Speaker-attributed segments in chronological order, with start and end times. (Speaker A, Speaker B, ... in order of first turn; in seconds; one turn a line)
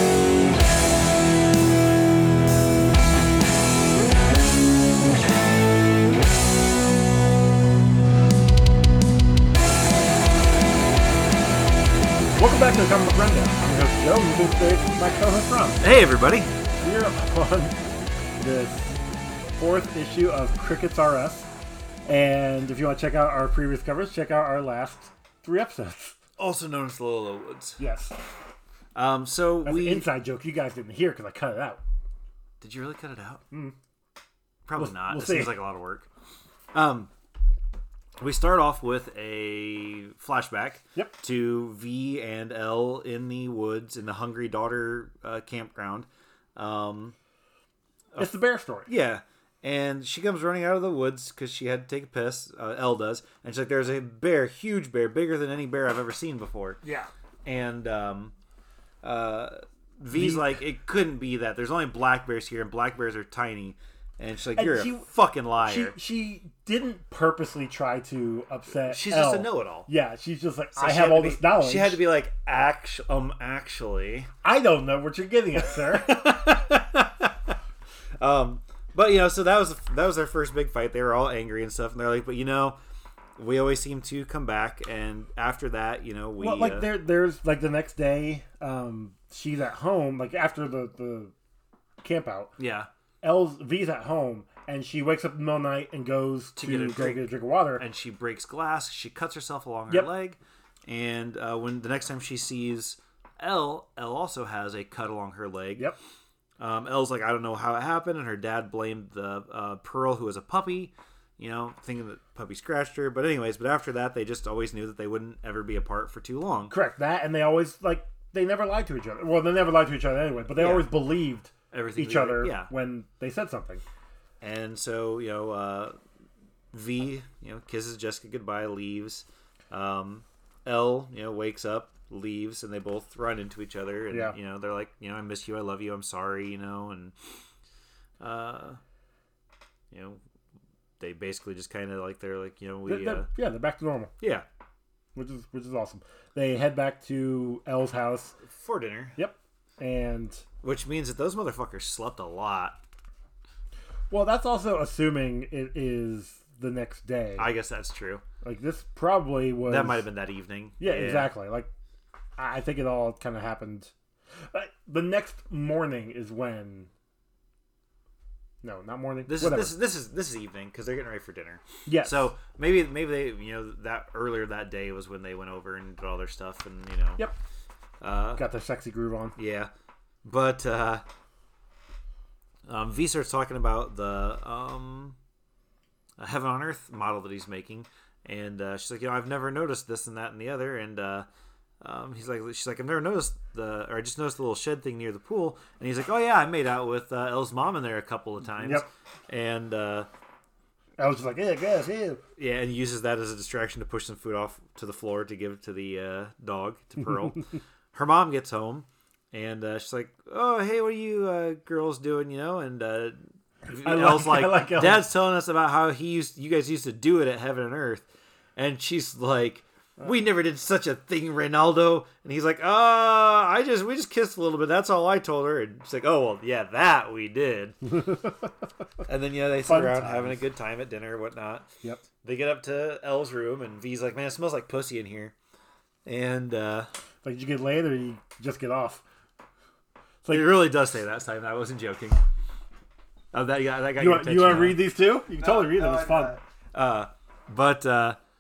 Speaker A: 12.4-15.8
Speaker B: 15.8-16.5
Speaker A: 16.8-17.8
Speaker A: 18.4-19.0
Speaker A: 19.6-21.5
Speaker A: 22.1-26.2
Speaker B: 26.4-27.8
Speaker A: 27.8-28.2
Speaker B: 28.9-30.1
Speaker A: 29.6-31.8
Speaker B: 32.6-33.4
Speaker A: 33.5-33.8
Speaker B: 34.7-36.1
Speaker A: 34.8-35.6
Speaker B: 36.7-37.1
Speaker B: 38.2-47.1
Speaker A: 48.2-48.9
Speaker B: 48.9-56.8
Speaker A: 56.8-57.1
Speaker B: 57.5-58.4
Speaker B: 59.0-66.0
Speaker A: 60.1-60.5
Speaker A: 64.5-65.1
Speaker A: 65.6-72.0
Speaker B: 68.8-69.9
Speaker B: 70.8-74.3
Speaker A: 74.4-76.2
Speaker B: 75.8-77.6
Speaker B: 78.2-82.8
Speaker B: 83.4-86.9
Speaker A: 86.4-91.3
Speaker A: 92.0-92.5
Speaker B: 92.6-92.9
Speaker A: 93.2-97.8
Speaker B: 96.6-105.9
Speaker B: 106.6-116.7
Speaker A: 116.7-123.8
Speaker B: 120.5-120.9
Speaker B: 121.7-122.7
Speaker B: 124.4-126.0
Speaker B: 126.7-137.2
Speaker A: 134.1-134.4
Speaker B: 138.2-138.8
Speaker B: 139.9-140.2
Speaker B: 141.0-143.3
Speaker A: 142.9-144.1
Speaker B: 144.2-144.5
Speaker A: 145.2-148.4
Speaker B: 148.4-149.2
Speaker A: 149.2-150.4
Speaker B: 150.6-152.8
Speaker A: 154.1-157.5
Speaker B: 157.4-158.2
Speaker A: 158.4-160.1
Speaker B: 159.6-161.3
Speaker A: 160.8-161.7
Speaker A: 162.4-163.9
Speaker A: 164.5-166.9
Speaker A: 168.6-169.8
Speaker B: 169.3-177.3
Speaker A: 171.9-172.3
Speaker B: 178.0-178.4
Speaker A: 178.4-179.3
Speaker B: 179.4-179.7
Speaker B: 180.2-181.0
Speaker B: 182.7-185.2
Speaker B: 186.2-191.3
Speaker B: 191.8-200.1
Speaker A: 198.6-198.9
Speaker A: 201.0-202.2
Speaker B: 202.4-227.8
Speaker A: 213.7-215.1
Speaker A: 227.9-228.5
Speaker B: 229.1-231.7
Speaker A: 229.6-230.4
Speaker B: 232.2-235.3
Speaker B: 236.1-236.9
Speaker A: 237.2-239.0
Speaker A: 240.2-240.7
Speaker B: 240.3-242.2
Speaker B: 243.3-248.2
Speaker A: 244.0-246.4